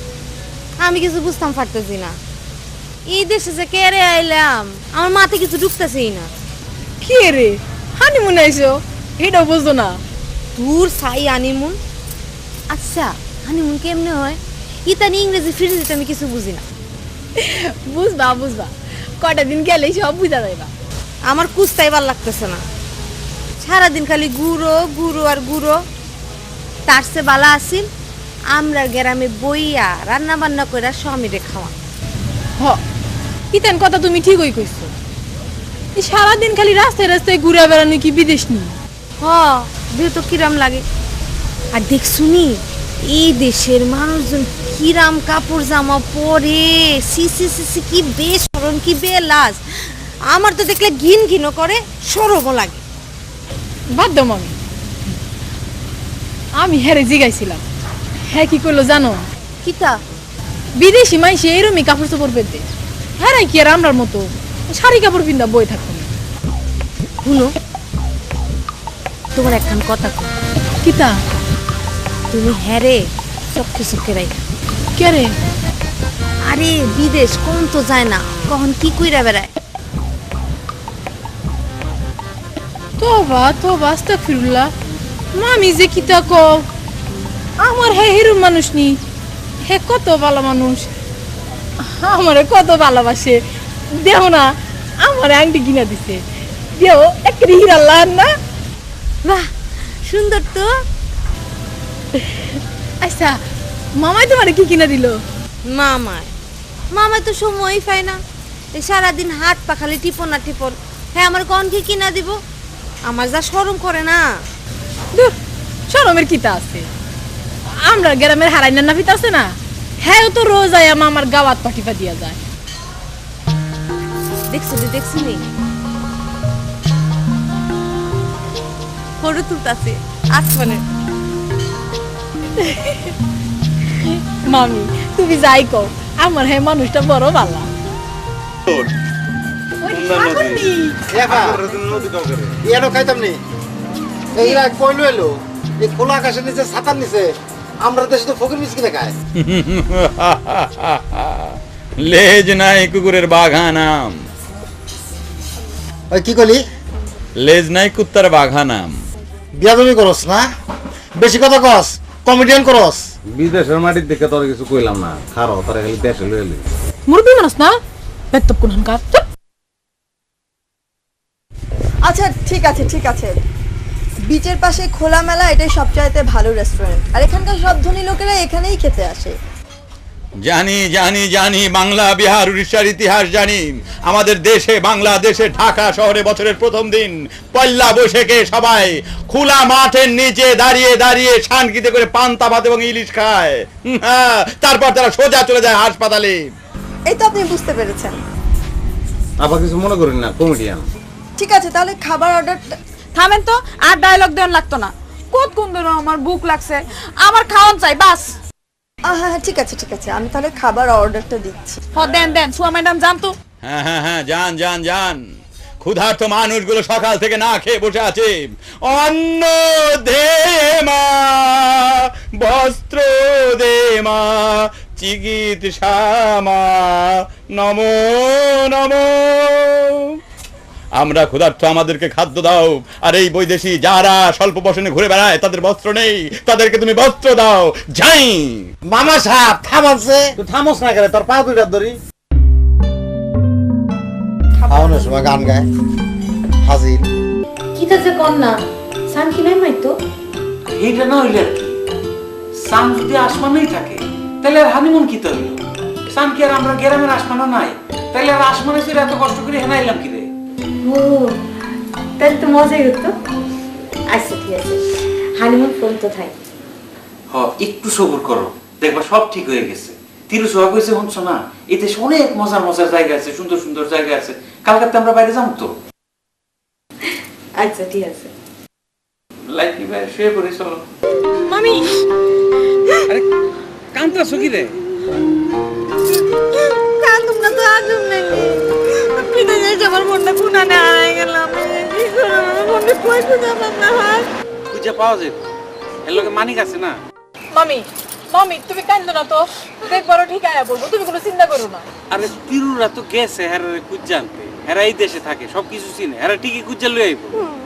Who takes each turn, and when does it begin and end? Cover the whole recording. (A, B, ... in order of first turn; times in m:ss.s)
0:00.8-0:02.2 A
0:03.1-0:06.3 A
0:07.0-0:10.0 B
0:10.6-0:11.8 A
0:12.7-0:16.6 A
0:17.4-0:20.7 B
0:21.3-0:22.6 A
0:23.6-0:25.8 A
0:26.9-0:27.9 A
0:28.5-0:31.7 A
0:33.5-0:34.9 B
0:36.0-0:38.8 B
0:39.2-0:40.8 A
0:41.7-0:49.6 A
0:50.3-0:52.8 A
0:53.9-0:54.5 B
0:56.6-0:57.6 B
0:58.3-0:59.3 B
0:59.6-1:00.0 A
1:00.8-1:02.7 B
1:03.2-1:06.1 B
1:07.2-1:07.6 A
1:09.4-1:10.3 A
1:10.8-1:11.2 B
1:12.3-1:14.4 A
1:15.0-1:15.3 B
1:16.4-1:19.5 A
1:23.0-1:24.7 B
1:25.4-1:26.6 B
1:27.6-1:29.0 B
1:29.7-1:30.9 B
1:31.8-1:33.4 B
1:34.0-1:36.2 B
1:36.8-1:38.3 B
1:39.2-1:39.5 A
1:40.0-1:40.7 A
1:43.0-1:43.4 B
1:44.0-1:45.2 B
1:45.7-1:46.3 A
1:46.9-1:48.2 A
1:48.7-1:52.4 A
1:53.0-1:54.3 A
1:55.9-1:56.9 B
1:57.8-2:02.4 B
2:04.5-2:05.5 A
2:09.2-2:10.8 A
2:12.6-2:13.1 B
2:14.3-2:17.7 B
2:19.8-2:21.0 B
2:20.0-2:20.5 C
2:21.1-2:21.6 D
2:21.2-2:22.4 C
2:22.6-2:23.4 D
2:24.3-2:29.1 D
2:29.4-2:34.2 E
2:36.1-2:36.6 D
2:37.4-2:38.9 E
2:39.6-2:40.5 D
2:41.2-2:43.0 D
2:43.3-2:46.7 C
2:47.1-2:47.8 B
2:48.3-2:49.2 B
2:52.0-2:53.4 F
2:54.3-2:59.4 F
3:00.4-3:16.5 E
3:17.1-3:18.2 F
3:19.4-3:20.9 C
3:21.4-3:22.7 F
3:23.1-3:28.4 G
3:29.0-3:31.8 F
3:31.9-3:33.4 G
3:33.6-3:35.2 E
3:35.8-3:41.8 E
3:42.4-3:44.4 E
3:45.0-3:47.0 E
3:47.6-3:50.0 E
3:51.0-3:58.7 E
3:58.9-4:00.3 D
4:00.4-4:02.0 C
4:04.7-4:05.7 D
4:06.6-4:07.1 D
4:07.8-4:10.0 A
4:10.7-4:11.8 H
4:12.6-4:20.3 H
4:20.8-4:21.4 A
4:22.2-4:23.2 A
4:24.1-4:26.4 A
4:27.3-4:35.7 H
4:37.6-4:38.3 A
4:39.5-4:40.8 H
4:41.5-4:42.0 B
4:43.9-4:44.8 H
4:46.7-4:54.3 A
4:54.7-4:55.4 H
4:56.0-4:57.0 H
4:57.5-5:01.9 B
5:02.1-5:07.4 H